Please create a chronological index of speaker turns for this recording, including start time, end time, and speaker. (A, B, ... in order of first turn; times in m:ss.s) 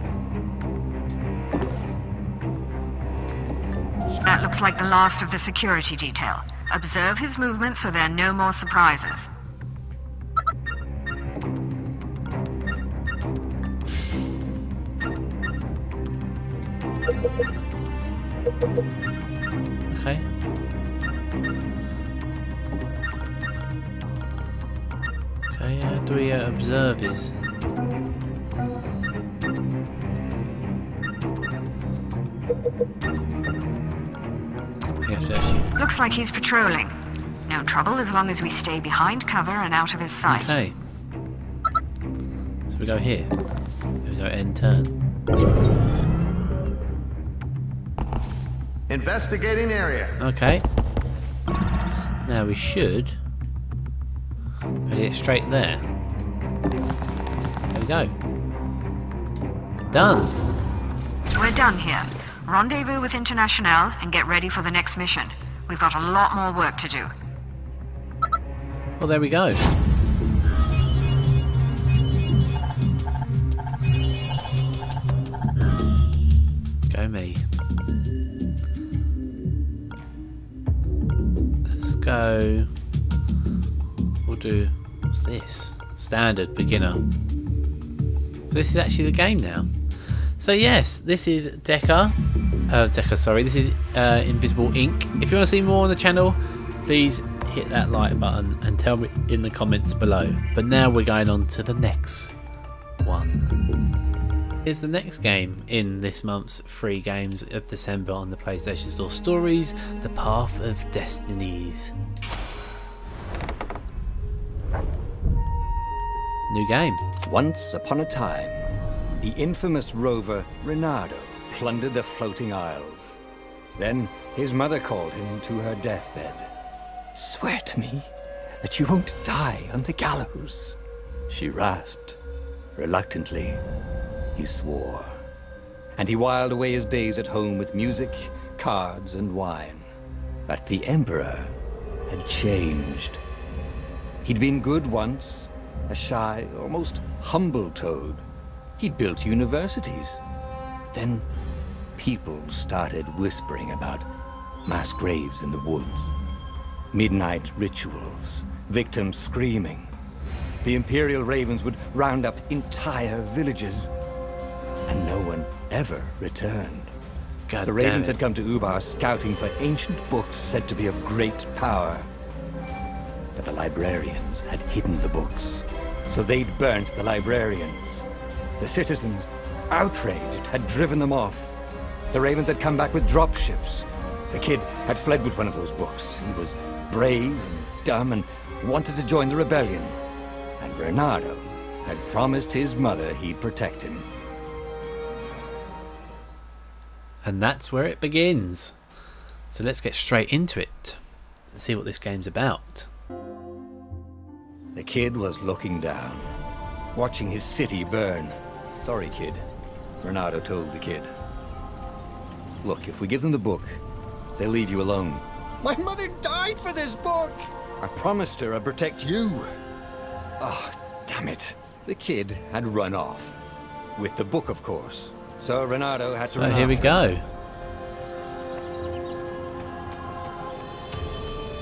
0:04.2-0:09.3 A
0:19.9-0:20.2 B
0:25.5-0:27.3 B
0:35.0-0:35.7 B
0:35.8-0:36.9 A
0:37.4-0:40.5 A
0:40.2-0:40.7 B
0:42.7-0:43.3 B
0:44.0-0:44.9 B
0:48.9-0:50.2 C
0:50.2-0:50.6 B
0:52.2-0:53.2 B
0:54.9-0:55.8 B
0:57.7-0:58.1 B
0:59.9-1:00.4 B
1:01.4-1:07.1 A
1:09.0-1:09.6 B
1:16.9-1:17.4 B
1:21.7-1:22.7 B
1:24.2-1:27.0 B
1:28.5-1:32.1 B
1:32.7-1:42.3 B
1:43.0-1:43.5 B
1:44.6-1:51.9 B
1:56.5-1:57.0 B
1:57.2-1:58.6 C
1:59.2-2:03.2 C
2:03.8-2:06.5 C
2:07.1-2:08.1 C
2:08.6-2:10.8 C
2:11.3-2:12.2 C
2:12.8-2:13.6 C
2:14.4-2:15.2 C
2:16.0-2:19.9 C
2:20.5-2:21.6 C
2:22.1-2:23.2 C
2:24.2-2:28.2 C
2:28.8-2:30.2 C
2:30.9-2:31.3 C
2:32.0-2:34.0 C
2:34.6-2:36.1 C
2:36.9-2:39.9 C
2:40.6-2:43.9 C
2:44.9-2:46.9 C
2:47.5-2:48.2 B
2:47.6-2:52.1 C
2:53.4-3:01.6 C
3:02.1-3:10.0 C
3:10.6-3:14.1 C
3:17.2-3:18.8 B
3:19.5-3:21.0 B
3:21.5-3:22.9 B
3:24.8-3:26.3 C
3:26.9-3:29.4 C
3:30.0-3:31.1 C
3:32.6-3:33.8 C
3:34.4-3:39.5 C
3:40.4-3:43.4 C
3:44.0-3:47.0 C
3:46.3-3:47.2 B